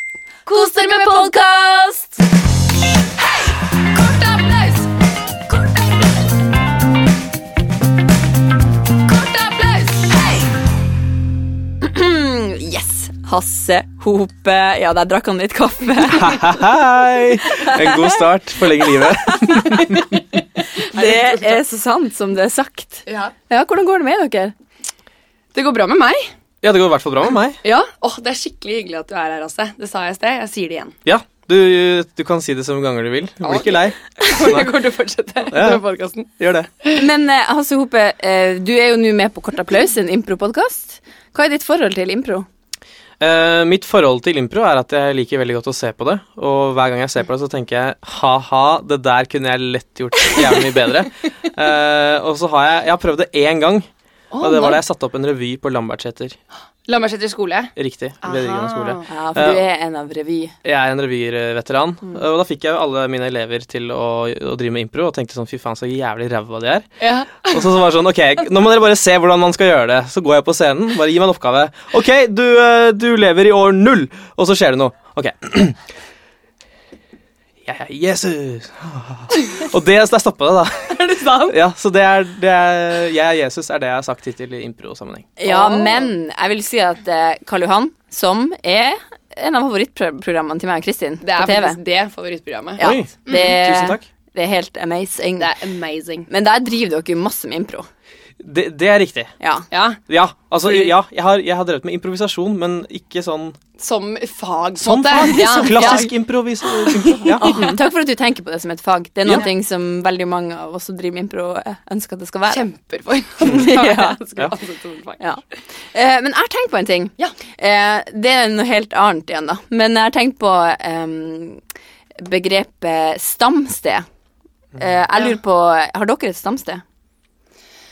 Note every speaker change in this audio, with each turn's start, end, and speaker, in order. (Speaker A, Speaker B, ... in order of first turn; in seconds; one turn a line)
Speaker A: 0.5-1.5
Speaker B: 0.5-2.1
Speaker A: 3.9-4.9
Speaker A: 9.1-10.4
Speaker B: 11.8-16.6
Speaker C: 16.0-20.0
Speaker B: 17.5-18.0
Speaker B: 19.4-19.8
Speaker A: 19.6-21.6
Speaker B: 20.7-24.5
Speaker A: 23.1-23.3
Speaker A: 25.5-26.3
Speaker C: 26.6-27.6
Speaker A: 27.6-30.9
Speaker C: 31.1-34.8
Speaker A: 33.4-36.3
Speaker C: 35.5-35.8
Speaker C: 36.4-36.7
Speaker B: 36.9-42.5
Speaker C: 43.2-53.9
Speaker A: 54.3-54.8
Speaker C: 54.4-56.4
Speaker A: 56.9-59.1
Speaker C: 57.8-59.6
Speaker B: 59.1-60.5
Speaker C: 60.6-66.9
Speaker A: 67.0-67.7
Speaker C: 67.4-75.8
Speaker C: 77.6-85.3
Speaker A: 80.9-81.6
Speaker B: 85.4-91.8
Speaker A: 85.4-86.1
Speaker A: 91.2-93.5
Speaker B: 92.8-95.5
Speaker C: 92.8-94.0
Speaker A: 95.4-96.3
Speaker B: 96.3-97.9
Speaker C: 98.4-99.3
Speaker A: 99.7-100.0
Speaker C: 100.1-103.6
Speaker A: 100.6-100.9
Speaker A: 103.8-107.7
Speaker C: 104.8-107.7
Speaker B: 105.3-106.0
Speaker B: 107.4-112.6
Speaker A: 112.5-115.2
Speaker B: 113.4-114.2
Speaker B: 115.2-121.6
Speaker B: 122.2-124.1
Speaker B: 124.8-126.8